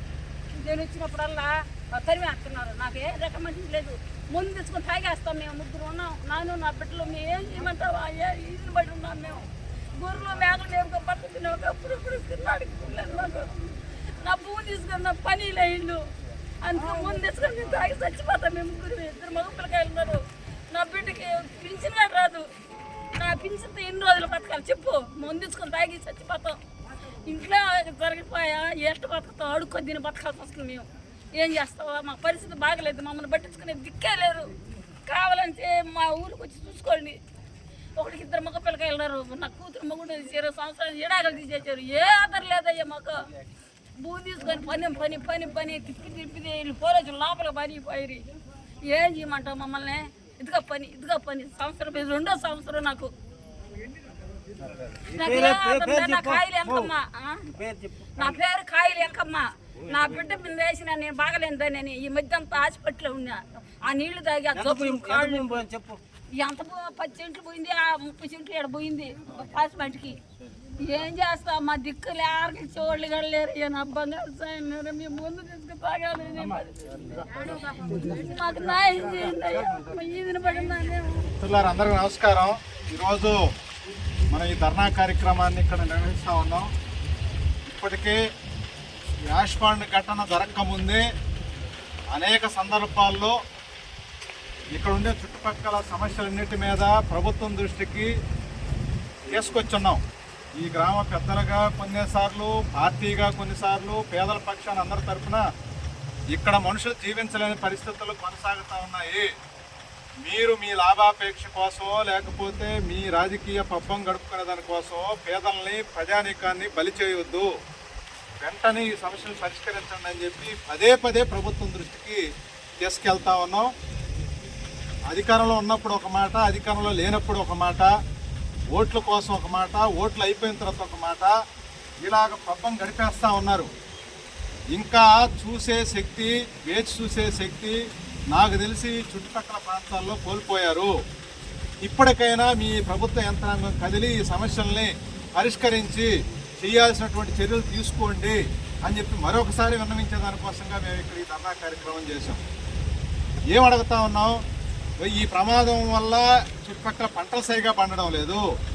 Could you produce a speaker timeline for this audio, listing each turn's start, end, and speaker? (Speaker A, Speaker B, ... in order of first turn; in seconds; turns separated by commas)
Speaker A: 0.6-9.5, Speaker A: 10.0-13.5, Speaker A: 14.2-16.0, Speaker A: 16.6-22.4, Speaker A: 23.2-26.6, Speaker A: 27.2-34.5, Speaker A: 35.1-37.2, Speaker A: 38.0-43.2, Speaker A: 44.0-48.2, Speaker A: 48.8-53.1, Speaker B: 55.1-56.8, Speaker A: 55.1-57.6, Speaker B: 57.6-58.3, Speaker A: 58.1-65.7, Speaker B: 64.7-66.0, Speaker A: 66.3-70.2, Speaker A: 70.8-81.3, Speaker C: 81.4-83.4, Speaker C: 84.3-86.7, Speaker C: 87.7-88.2, Speaker C: 89.3-91.0, Speaker C: 92.1-93.4, Speaker C: 94.7-98.1, Speaker C: 99.3-100.0, Speaker C: 100.6-105.4, Speaker C: 106.3-109.3, Speaker C: 110.2-117.5, Speaker C: 118.4-122.2, Speaker C: 122.8-123.7, Speaker C: 125.1-127.9, Speaker C: 128.7-131.3, Speaker C: 132.0-133.7, Speaker C: 134.7-137.8, Speaker C: 138.3-140.9, Speaker C: 141.8-152.4, Speaker C: 153.5-154.4, Speaker C: 155.0-158.4